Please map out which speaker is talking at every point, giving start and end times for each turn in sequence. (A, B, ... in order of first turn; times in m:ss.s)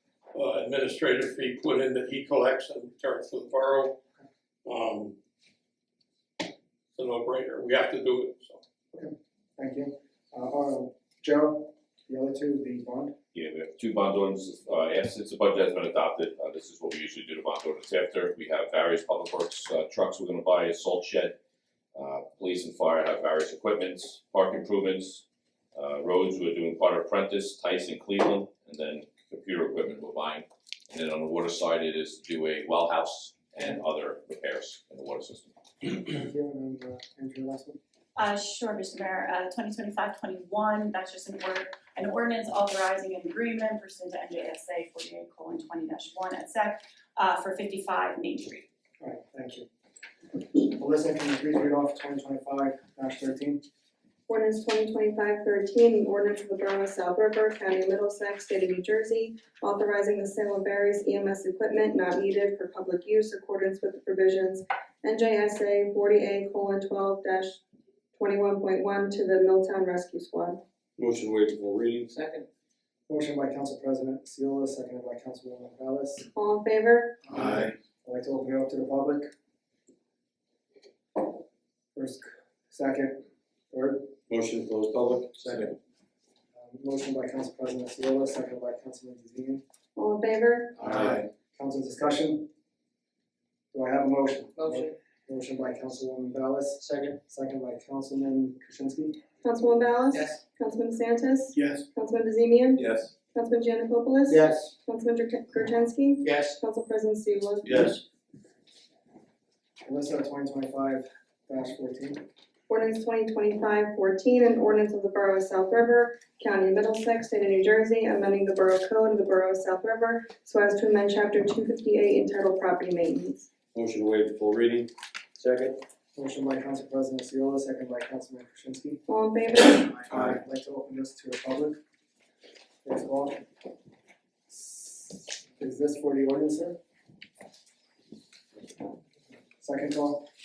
0:00.3-0:04.0 A
0:04.6-0:05.1 A
0:06.9-0:08.6 A
0:08.9-0:13.1 B
0:13.3-0:21.4 C
0:21.9-0:25.2 C
0:25.7-0:35.5 C
0:35.8-0:37.8 B
0:38.2-0:48.6 D
0:49.0-0:49.6 B
0:50.6-0:53.6 B
0:54.3-1:07.6 E
1:08.1-1:10.6 E
1:11.0-1:12.1 F
1:12.1-1:12.4 G
1:13.1-1:16.2 B
1:16.3-1:17.2 E
1:17.3-1:19.3 B
1:17.4-1:17.7 F
1:21.9-1:24.1 B
1:24.3-1:25.7 F
1:26.5-1:29.6 B
1:30.0-1:30.8 E
1:30.8-1:32.5 B
1:33.7-1:39.2 B
1:34.6-1:34.9 G
1:36.8-1:37.1 G
1:39.4-1:48.0 E
1:40.1-1:40.4 G
1:42.8-1:43.1 F
1:44.3-1:44.7 G
1:46.2-1:46.6 G
1:49.8-1:52.2 B
1:52.7-2:03.5 E
2:03.7-2:05.8 F
2:06.1-2:09.0 B
2:09.1-2:10.0 E
2:10.1-2:11.8 B
2:10.1-2:10.4 F
2:12.8-2:13.5 B
2:14.5-2:16.8 B
2:19.6-2:20.3 B